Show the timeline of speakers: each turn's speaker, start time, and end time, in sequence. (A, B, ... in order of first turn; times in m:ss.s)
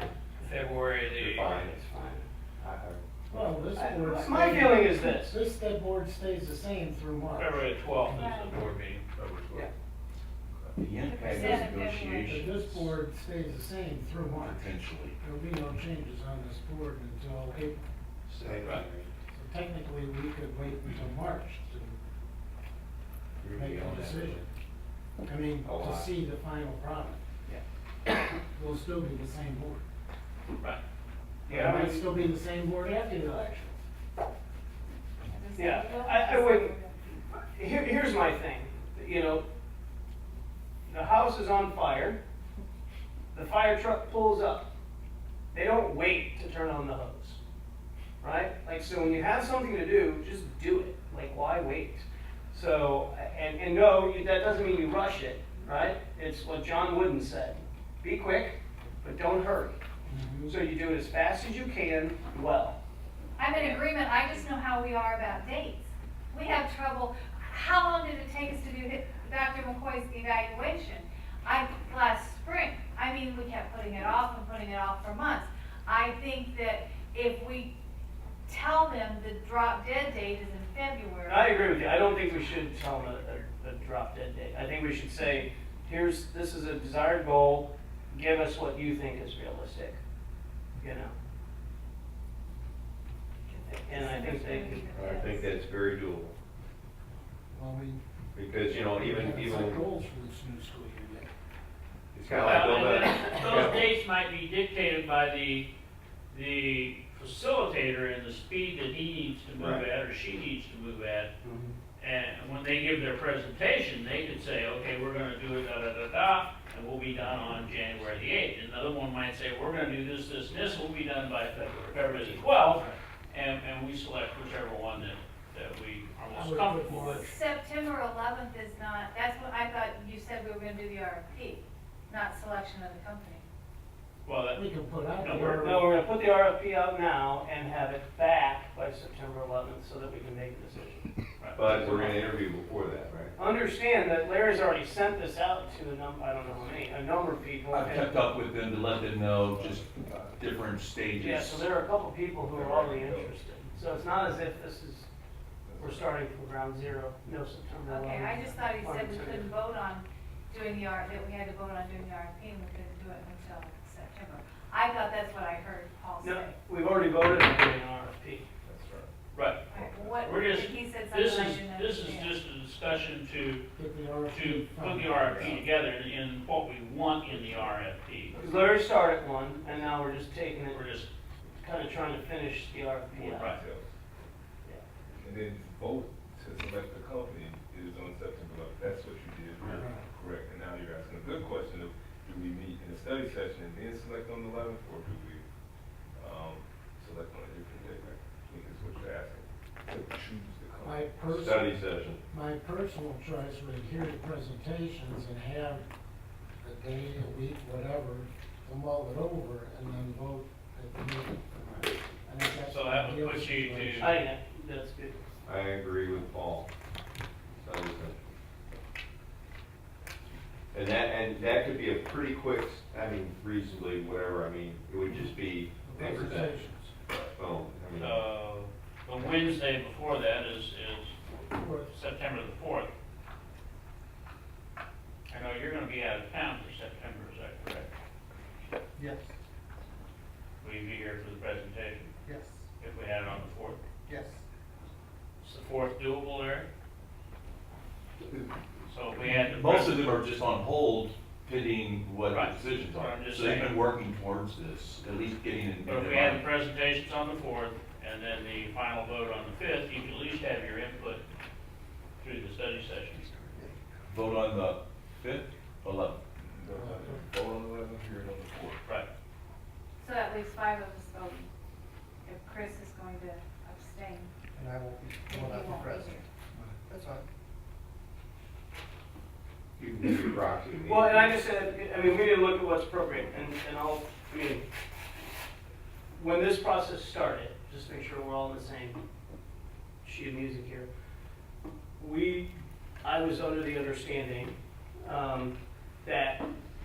0:00.4-0:02.2 A
0:00.8-0:01.3 B
0:01.2-0:01.8 C
0:02.6-0:03.0 C
0:03.3-0:08.3 D
0:03.8-0:05.3 A
0:07.4-0:09.0 B
0:08.1-0:08.5 E
0:08.4-0:09.7 F
0:10.7-0:13.0 F
0:11.0-0:12.4 E
0:12.3-0:17.9 D
0:14.4-0:15.2 F
0:18.3-0:18.8 A
0:18.3-0:19.1 C
0:19.3-0:22.0 D
0:23.4-0:24.4 C
0:23.5-0:24.5 D
0:25.2-0:27.2 D
0:25.6-0:26.1 C
0:28.5-0:29.8 D
0:31.5-0:32.0 A
0:31.5-0:33.8 D
0:35.3-0:37.0 E
0:35.6-0:36.7 A
0:37.3-0:39.4 A
0:40.9-0:42.2 A
0:43.3-0:44.7 A
0:45.5-0:47.4 A
0:48.2-0:59.8 A
1:00.1-1:00.7 D
1:00.5-1:02.8 A
1:03.4-1:17.7 E
1:18.5-1:21.6 E
1:21.3-1:30.0 A
1:30.8-1:31.2 A
1:33.5-1:34.8 A
1:33.9-1:35.5 E
1:34.9-1:36.4 C
1:37.5-1:38.0 D
1:38.4-1:39.8 C
1:38.6-1:41.3 D
1:42.1-1:43.9 C
1:42.4-1:45.7 B
1:46.3-1:51.3 B
1:49.6-1:49.8 C
1:52.0-2:07.4 B
2:01.6-2:02.8 A
2:06.3-2:07.3 D
2:07.2-2:13.4 E
2:14.2-2:14.6 B
2:14.5-2:16.1 D
2:15.2-2:15.6 B
2:15.6-2:21.1 A
2:21.4-2:21.6 B
2:21.6-2:23.4 C
2:21.7-2:22.3 A
2:23.4-2:28.1 A
2:26.4-2:26.9 G
2:27.7-2:31.7 F
2:29.5-2:30.4 G
2:31.2-2:35.1 A
2:32.4-2:34.4 G
2:35.7-2:36.3 G
2:35.8-2:39.5 A
2:37.8-2:46.6 E
2:46.2-2:48.5 A
2:48.6-2:49.1 G
2:49.3-2:49.6 B
2:49.7-2:50.5 G
2:49.7-2:52.4 E
2:50.2-2:53.6 B
2:53.8-2:55.7 D
2:54.3-2:58.4 B
2:57.3-2:57.8 G
2:58.3-3:00.0 G
2:58.4-3:00.8 A
3:00.7-3:01.1 B
3:01.6-3:03.5 A
3:03.1-3:04.0 G
3:03.4-3:03.6 B
3:05.1-3:15.4 G
3:09.7-3:10.0 D
3:16.2-3:21.4 G
3:20.8-3:25.9 D
3:21.3-3:22.2 C
3:26.6-3:31.5 D
3:32.3-3:34.4 D
3:32.7-3:34.2 B
3:34.0-3:35.3 A
3:35.5-3:36.7 C
3:37.6-3:38.3 C
3:40.7-3:46.6 C
3:45.8-3:46.9 D
3:47.3-3:48.2 C
3:48.0-3:51.2 B
3:51.3-3:51.9 D
3:51.8-3:52.9 B
3:55.3-3:57.9 B
3:59.0-3:59.3 H
4:00.6-4:02.1 B
4:02.3-4:02.6 H
4:02.8-4:03.8 B
4:04.1-4:04.4 H
4:05.4-4:06.7 B
4:08.9-4:10.0 B
4:09.2-4:16.5 F
4:12.3-4:13.8 B
4:15.8-4:21.2 B
4:22.2-4:23.3 B
4:24.1-4:26.2 F
4:26.4-4:28.8 G
4:26.8-4:27.2 D
4:30.0-4:31.5 E
4:32.2-4:34.3 E
4:34.6-4:37.2 H
4:35.3-4:36.2 E
4:39.8-4:41.4 C
4:40.9-4:44.7 A
4:46.2-4:49.0 A
4:50.0-4:50.9 A
4:52.0-4:56.4 A